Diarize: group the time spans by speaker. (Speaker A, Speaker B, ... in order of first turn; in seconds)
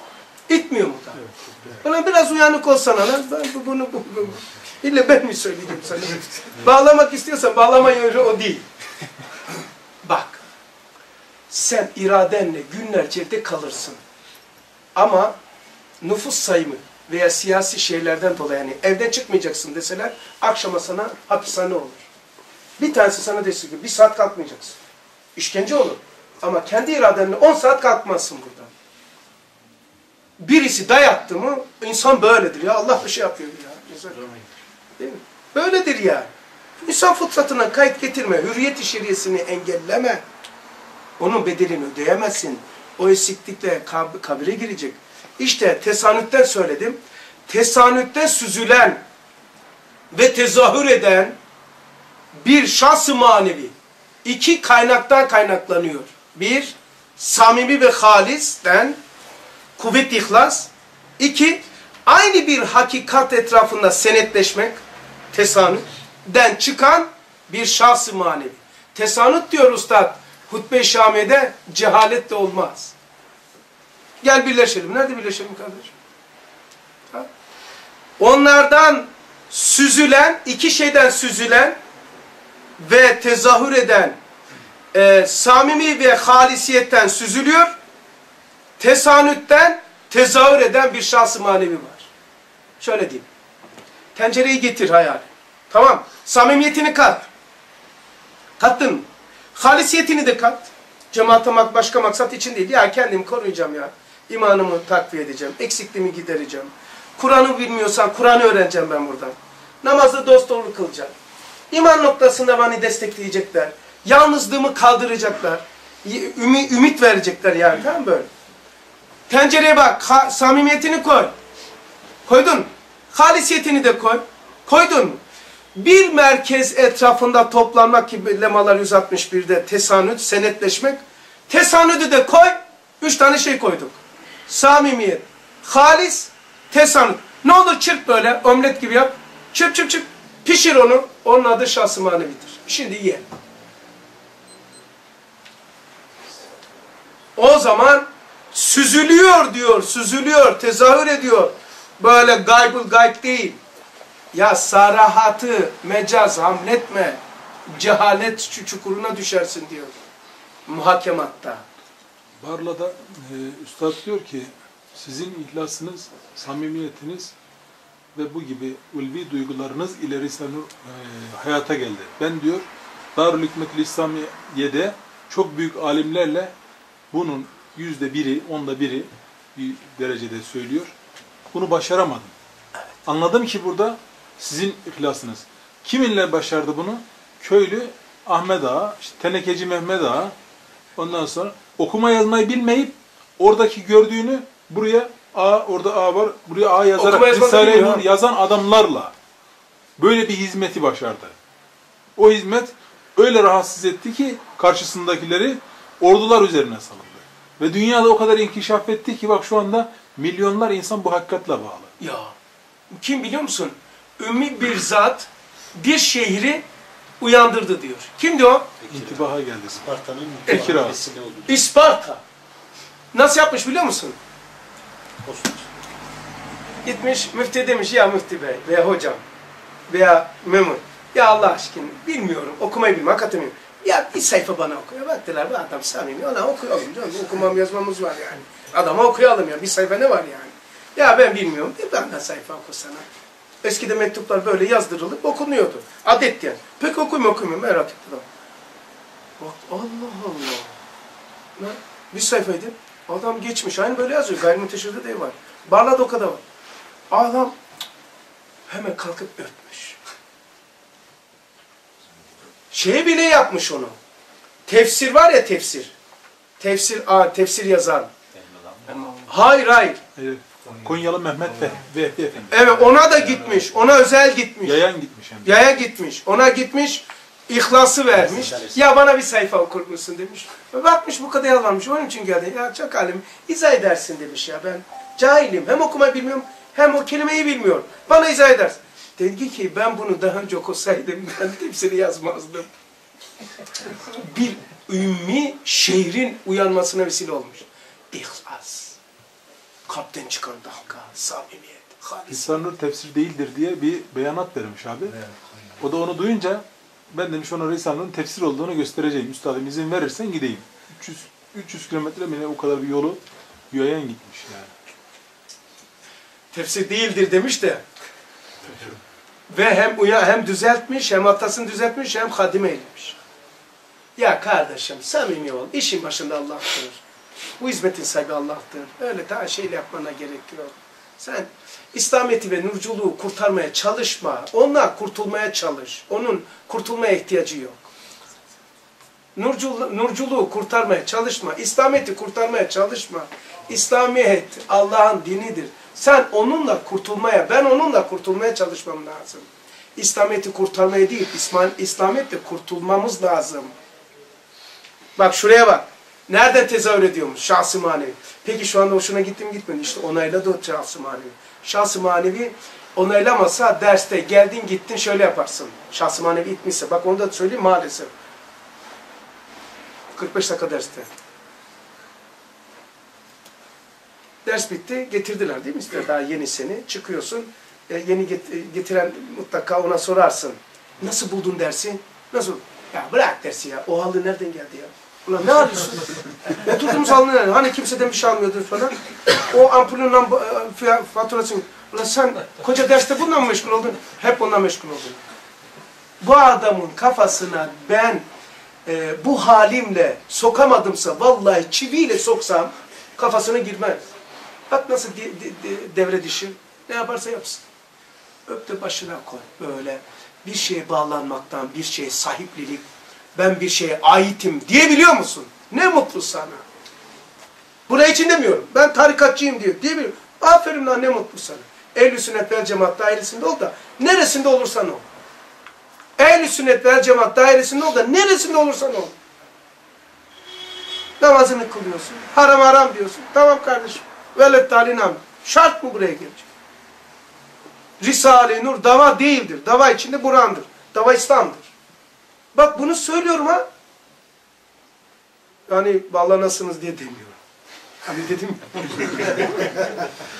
Speaker A: 0.5-8.7, 10.0-10.4, 11.5-14.0, 14.9-15.3, 16.0-22.1, 22.8-24.8, 25.4-28.7, 30.4-34.3, 35.0-40.2, 41.2-49.0, 50.1-51.4, 52.4-53.7, 54.2-59.0, 59.8-64.8, 65.3-72.9, 74.2-75.9, 78.2-81.8, 82.8-84.2, 84.9-87.7, 88.8-92.1, 92.8-93.2, 94.1-97.3, 98.6-111.1, 111.7-118.3, 119.3-121.3, 122.2-125.2, 125.7-131.0, 131.5-143.2, 147.3-153.6, 154.3-159.9, 160.7-161.6, 196.9-198.1, 212.0-212.3, 212.9-216.6, 217.2-218.7, 220.5-220.9, 221.4-222.2, 223.1-224.2, 226.8-229.2, 229.9-243.0, 243.6-248.2, 249.4-250.7, 251.6-256.4, 257.1-257.5, 258.7-260.0, 262.7-263.9, 264.7-265.9, 266.6-268.1, 269.1-270.0, 272.5-274.8, 275.4-292.7, 294.1-299.0, 299.9-302.6, 316.5-317.8, 319.5-323.2, 324.2-327.0, 327.6-337.9, 339.4-353.7, 355.1-368.1, 370.1-371.1, 374.4-395.2, 396.2-398.2, 398.8-404.0, 404.7-407.6, 408.5-416.6, 417.9-425.0, 426.2-429.1, 431.2-436.5, 438.0-441.7, 442.5-443.6, 445.7-447.4, 448.0-449.9
Speaker B: 162.4-167.3, 168.1-176.5, 177.1-180.9, 181.5-182.3, 183.0-190.3, 190.9-199.1, 200.0-201.3, 202.2-211.9, 218.9-219.8, 220.5-221.0, 270.1-272.7, 274.6-275.5, 302.3-305.2, 305.8-314.7
Speaker C: 218.8-219.3, 219.8-221.6, 225.2-225.7, 268.6-269.1, 278.2-278.7, 305.3-305.6